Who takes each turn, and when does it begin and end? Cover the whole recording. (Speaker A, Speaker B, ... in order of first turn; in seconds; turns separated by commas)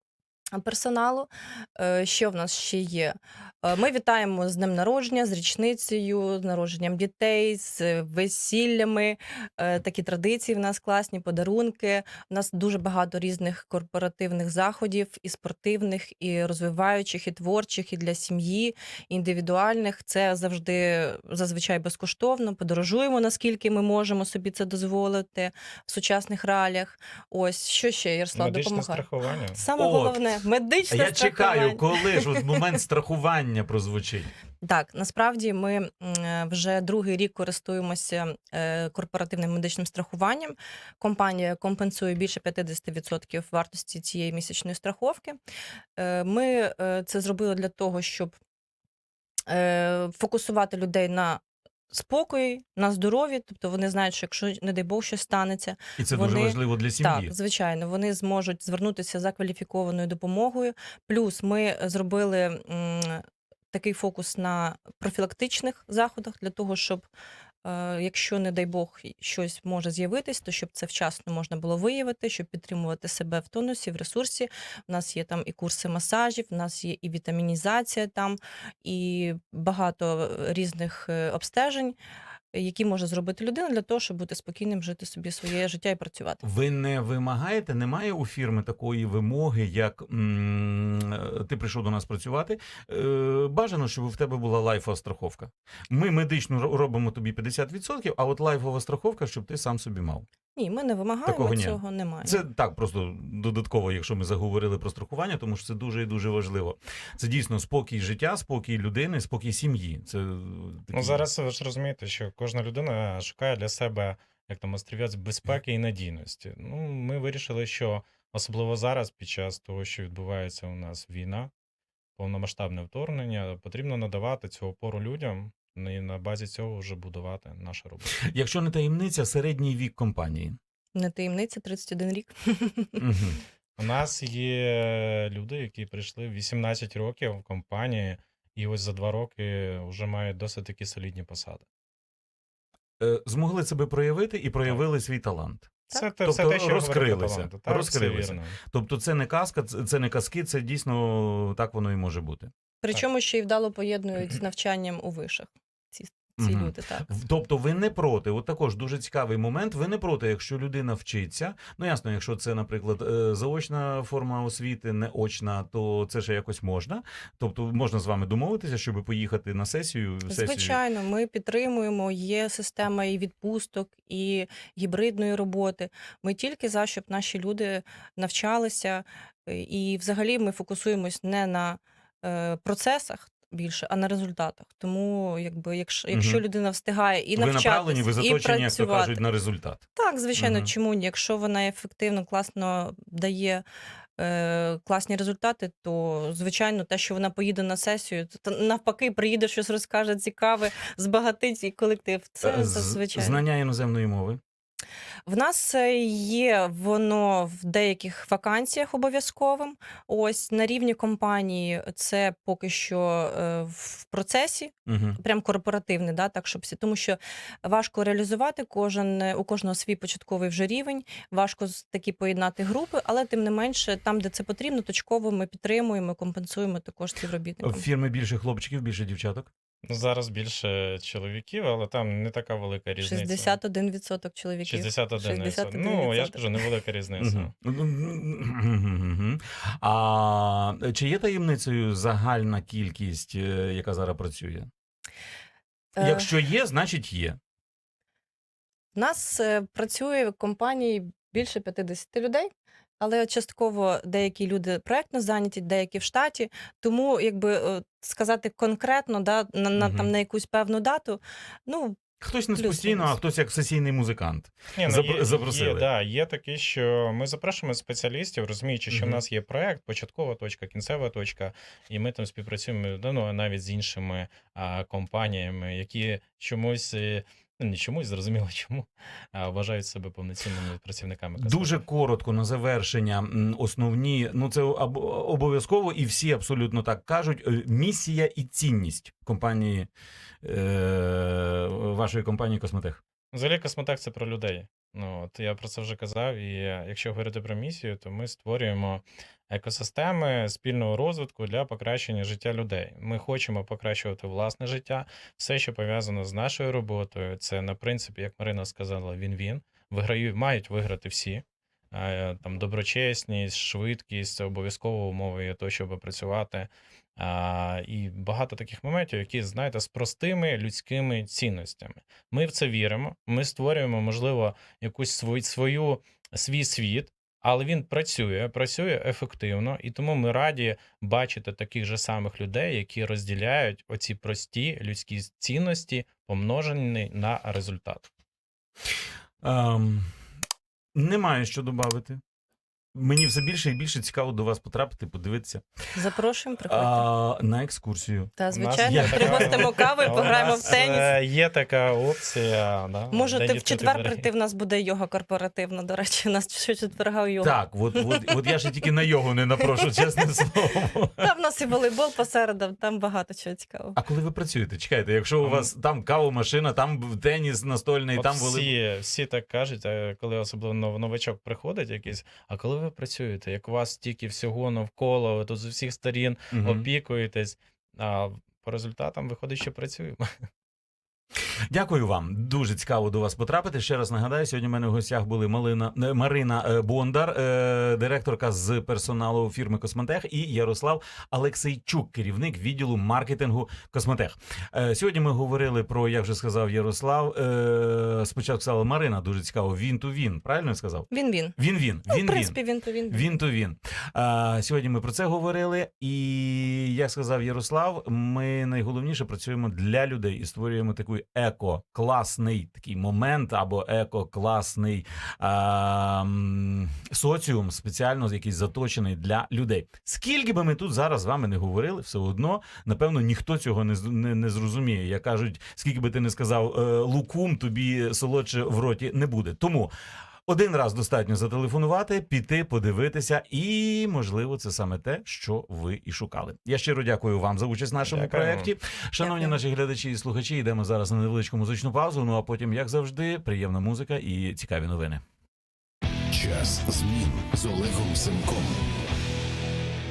Speaker A: 0.5-32.3, Speaker B: 28.3-29.6, Speaker C: 29.8-30.2, Speaker C: 30.9-34.3, Speaker A: 34.6-45.4, Speaker A: 46.0-48.3, Speaker A: 49.5-67.1, Speaker C: 56.0-57.3, Speaker A: 67.6-82.0, Speaker A: 82.5-86.4, Speaker C: 86.4-100.2, Speaker A: 100.5-102.4, Speaker C: 101.2-111.2, Speaker B: 110.9-121.5, Speaker B: 122.2-128.2, Speaker C: 128.2-130.6, Speaker A: 130.9-133.0, Speaker C: 133.0-133.4, Speaker B: 133.8-141.6, Speaker C: 143.0-145.7, Speaker B: 145.9-148.6, Speaker C: 146.2-152.5, Speaker A: 152.8-157.1, Speaker C: 156.4-170.8, Speaker A: 170.3-189.2, Speaker C: 186.1-186.4, Speaker C: 187.3-189.8, Speaker A: 189.9-193.6, Speaker C: 190.3-190.7, Speaker A: 194.2-203.4, Speaker C: 202.4-204.4, Speaker A: 205.2-227.8, Speaker C: 214.9-215.2, Speaker C: 227.6-229.5, Speaker B: 229.8-233.6, Speaker A: 233.0-236.4, Speaker B: 234.7-237.5, Speaker C: 237.2-244.7, Speaker C: 246.0-247.4, Speaker A: 246.0-246.3, Speaker A: 248.9-252.5, Speaker A: 253.0-262.0, Speaker C: 259.8-260.1, Speaker C: 262.2-265.9, Speaker A: 262.5-263.2, Speaker B: 264.7-281.8, Speaker C: 268.9-269.2, Speaker C: 281.4-289.9, Speaker C: 290.4-293.0, Speaker B: 293.3-338.1, Speaker C: 339.4-340.1, Speaker C: 340.9-342.2, Speaker C: 342.9-345.6, Speaker A: 345.9-347.1, Speaker C: 346.6-350.6, Speaker A: 348.4-351.1, Speaker B: 348.5-354.3, Speaker A: 353.1-358.6, Speaker C: 357.4-361.3, Speaker A: 359.6-359.9, Speaker A: 361.2-364.0, Speaker C: 363.9-368.7, Speaker B: 365.4-365.7, Speaker B: 368.1-380.5, Speaker C: 376.5-376.9, Speaker C: 381.7-402.6, Speaker A: 401.1-401.6, Speaker A: 402.1-403.4, Speaker C: 403.1-429.9, Speaker C: 430.5-445.2, Speaker B: 438.0-438.7, Speaker A: 439.2-439.5, Speaker D: 446.3-448.8